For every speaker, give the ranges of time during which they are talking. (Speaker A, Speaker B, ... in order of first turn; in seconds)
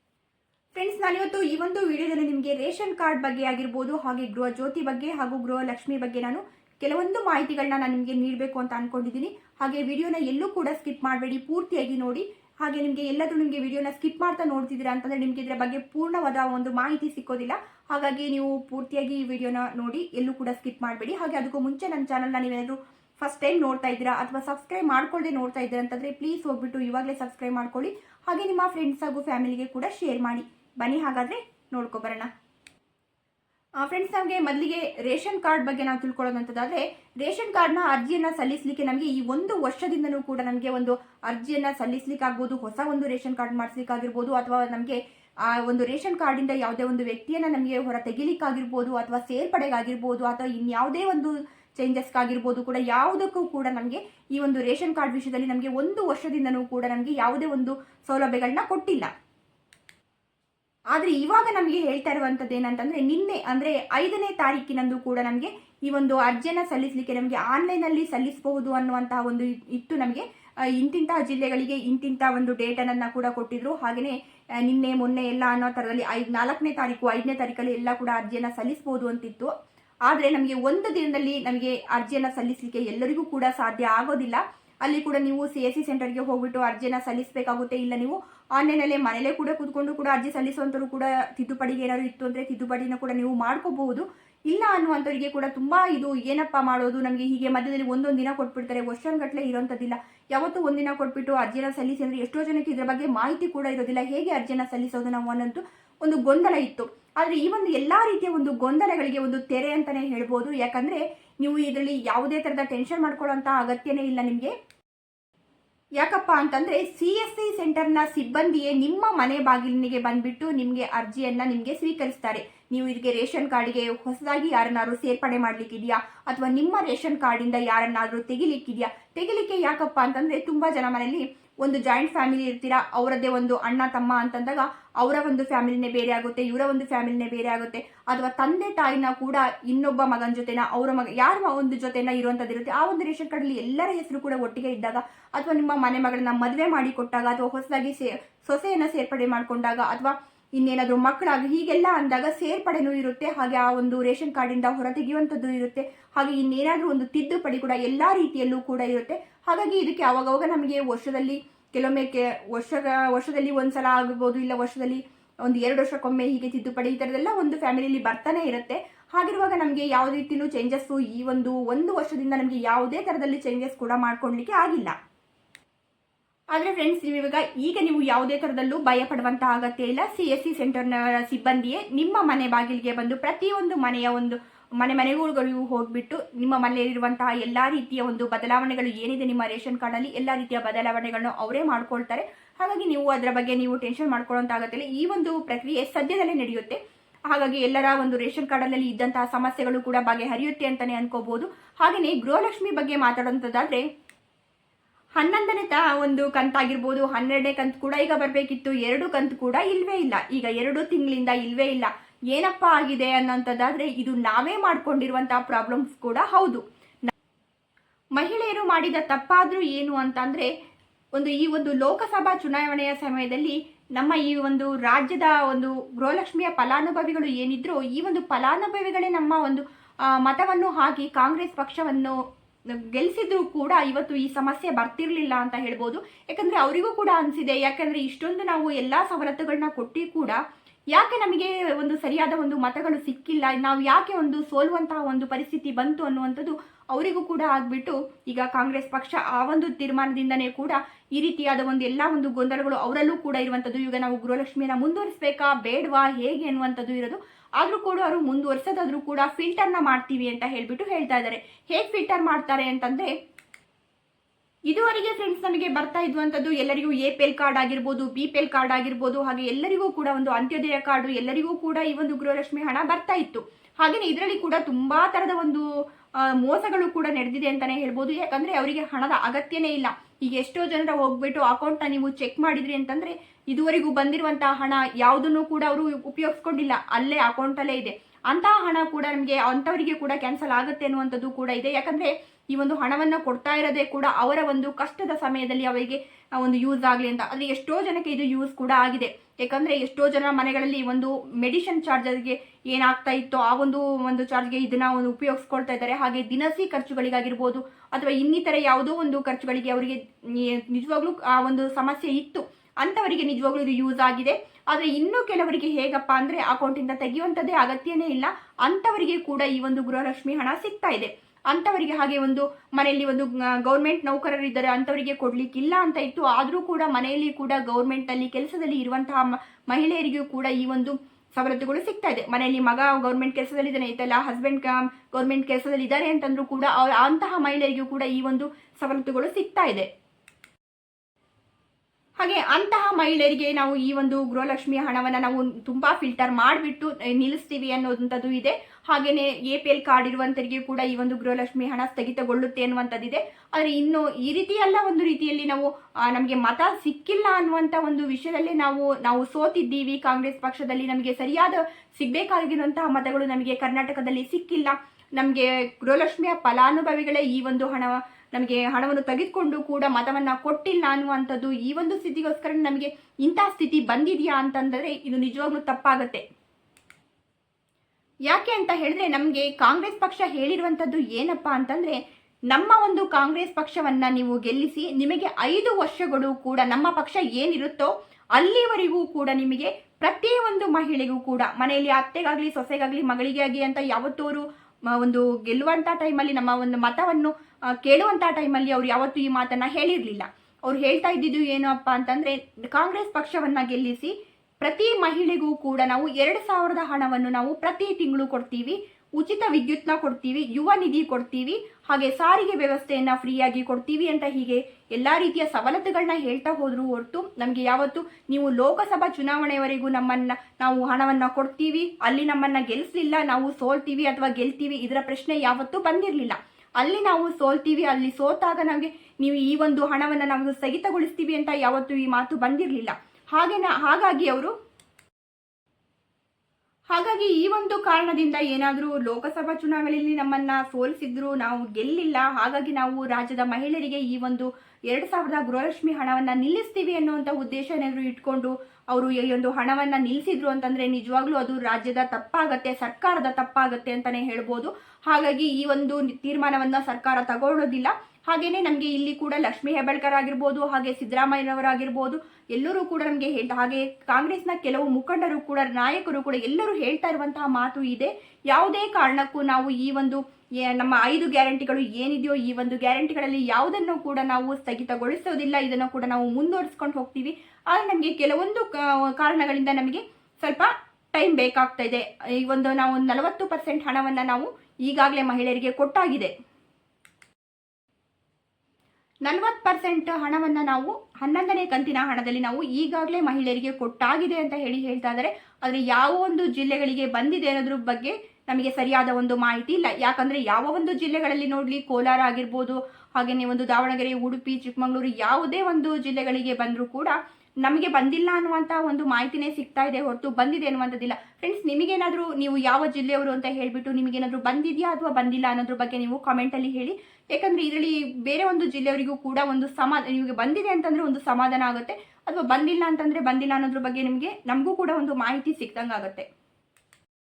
Speaker A: 0.8-32.3, 33.8-59.1, 60.9-70.2, 70.8-79.5, 80.1-114.5, 116.0-174.9, 176.5-196.8, 197.3-203.8, 205.2-217.1, 218.2-220.5, 221.1-232.2, 232.7-240.4, 240.9-263.1, 264.7-275.6, 276.2-339.9, 342.2-376.2, 378.3-382.0, 382.5-434.5, 436.9-486.3, 489.2-526.2